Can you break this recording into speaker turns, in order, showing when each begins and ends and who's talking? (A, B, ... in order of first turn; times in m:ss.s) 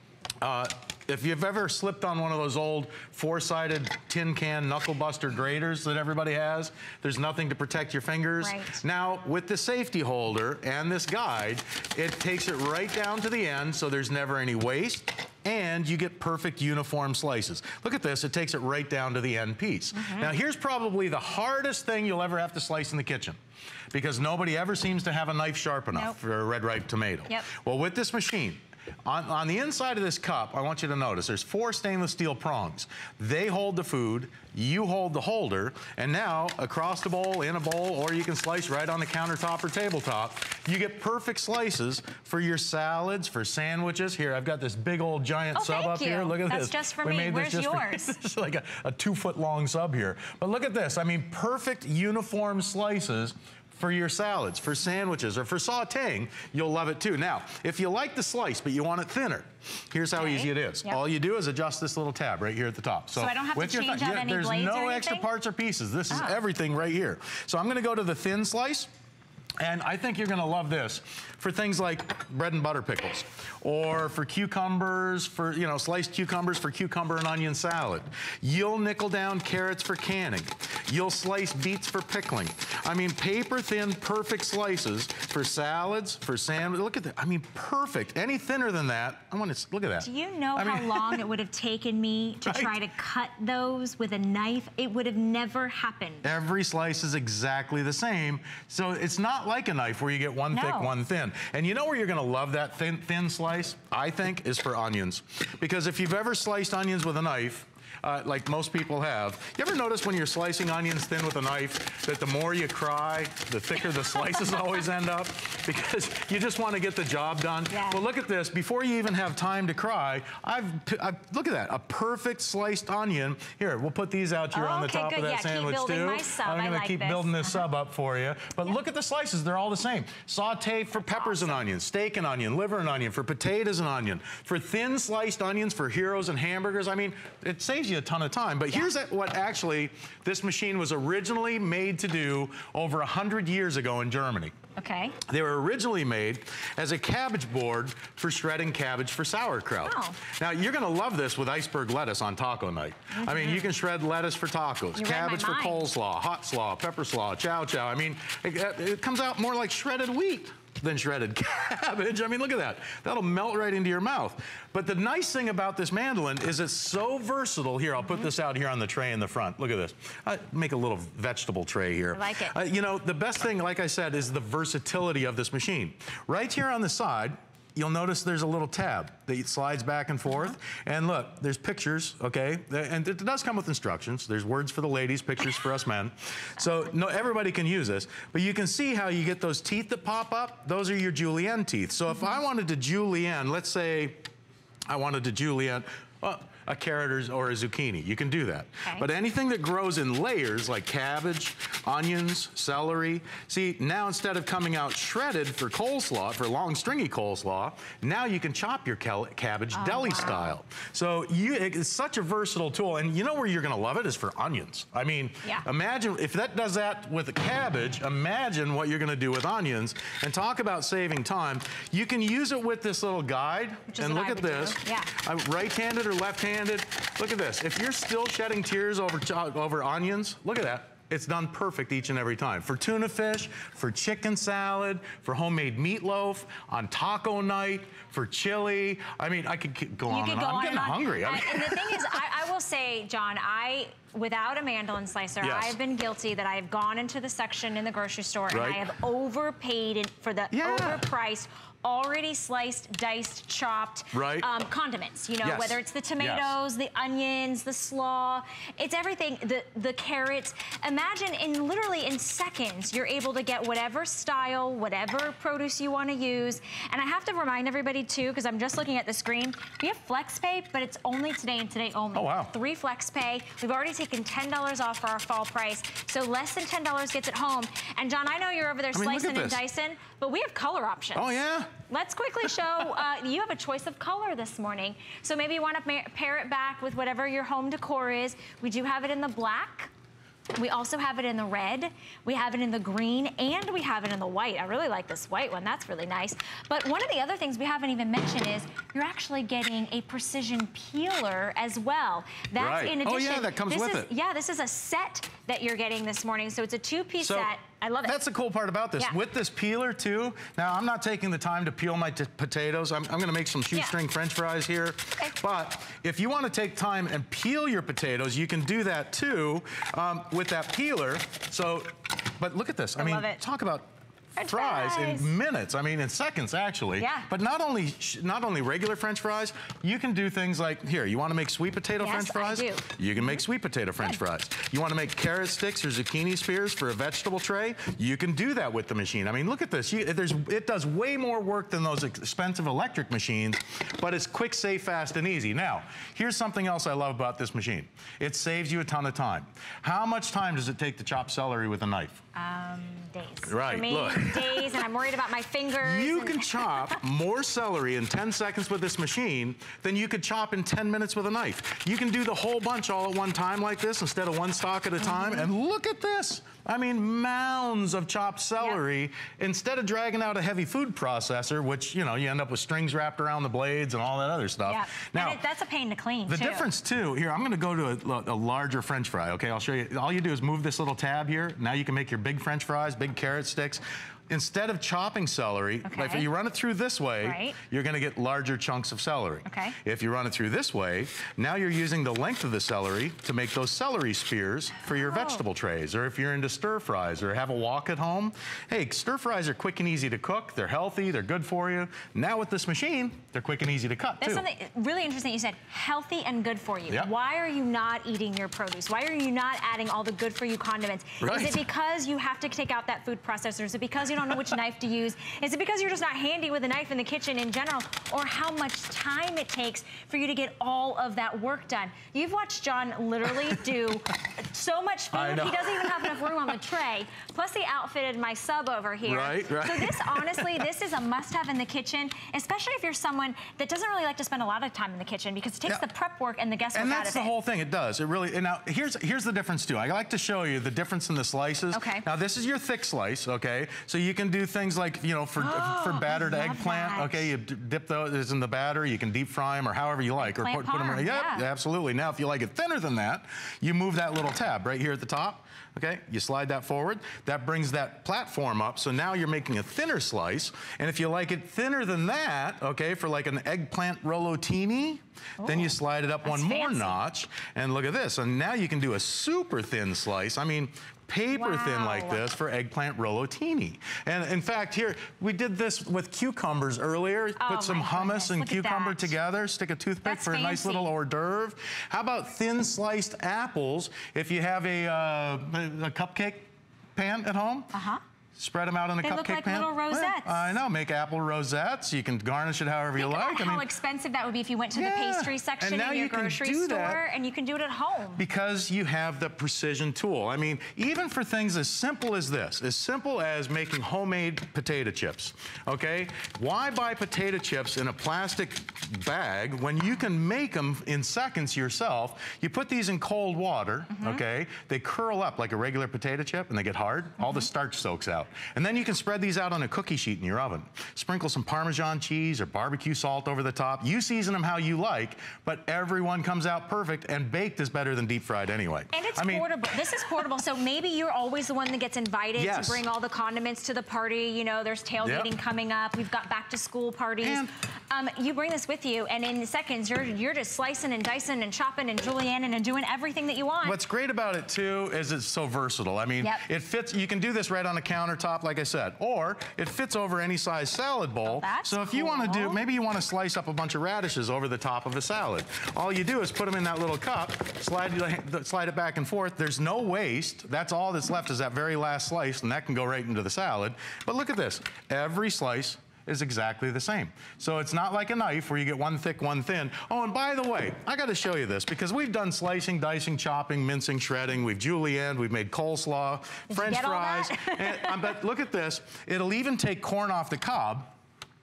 0:00.4-0:23.4 A
0:08.4-0:08.8 B
0:19.9-0:20.3 B
0:23.9-1:08.9 A
0:45.6-0:48.2 B
1:00.2-1:01.0 B
1:03.1-1:05.3 B
1:06.1-1:06.4 B
1:09.6-1:31.2 A
1:30.0-1:36.2 B
1:32.5-1:32.8 A
1:36.2-2:24.5 A
1:40.5-1:40.9 B
1:57.7-1:58.0 B
2:04.5-2:07.7 B
2:10.9-2:11.6 B
2:24.8-2:25.2 B
2:25.3-3:14.2 A
2:29.8-2:30.2 B
2:33.1-2:33.7 B
2:34.9-2:35.9 B
2:52.1-2:52.6 B
3:14.9-4:02.2 A
3:29.7-3:30.5 B
3:43.9-3:45.1 B
4:00.1-4:41.4 B
4:05.4-4:05.8 A
4:08.5-4:08.8 A
4:10.5-4:11.1 A
4:14.1-4:14.5 A
4:15.4-4:16.5 A
4:32.1-4:32.5 A
4:38.9-4:39.6 A
4:41.2-4:41.7 A
4:41.9-4:49.9 B
4:50.6-5:08.2 B
5:02.6-5:04.1 A
5:07.2-5:07.5 A
5:08.0-5:52.2 A
5:23.0-5:23.4 B
5:24.4-5:25.3 B
5:27.0-5:27.3 B
5:32.0-5:33.4 B
5:52.4-5:57.0 B
5:53.5-5:54.8 A
5:55.8-6:15.4 A
6:05.0-6:05.5 B
6:14.7-6:16.7 B
6:16.3-6:44.4 A
6:25.8-6:26.3 B
6:27.2-6:27.6 B
6:29.5-6:29.8 B
6:34.9-6:35.4 B
6:44.2-7:17.3 B
6:51.2-6:51.6 A
7:05.1-7:06.5 A
7:09.0-7:10.6 A
7:16.7-8:07.7 A
7:21.7-7:22.0 B
7:25.4-7:27.3 B
7:30.2-7:31.4 B
7:45.4-7:47.0 B
7:51.3-7:52.2 B
7:57.4-7:59.1 B
8:00.0-8:00.9 B
8:07.7-8:08.0 B
8:08.4-8:13.7 A
8:09.0-8:10.6 B
8:13.0-8:18.2 B
8:14.8-8:17.0 A
8:18.2-8:49.5 A
8:33.9-8:34.2 B
8:37.2-8:37.5 B
8:48.9-9:03.8 B
8:52.4-8:52.8 A
8:55.0-8:55.3 A
8:57.2-8:57.5 A
9:03.6-9:40.9 A
9:11.2-9:12.6 B
9:36.5-9:38.1 B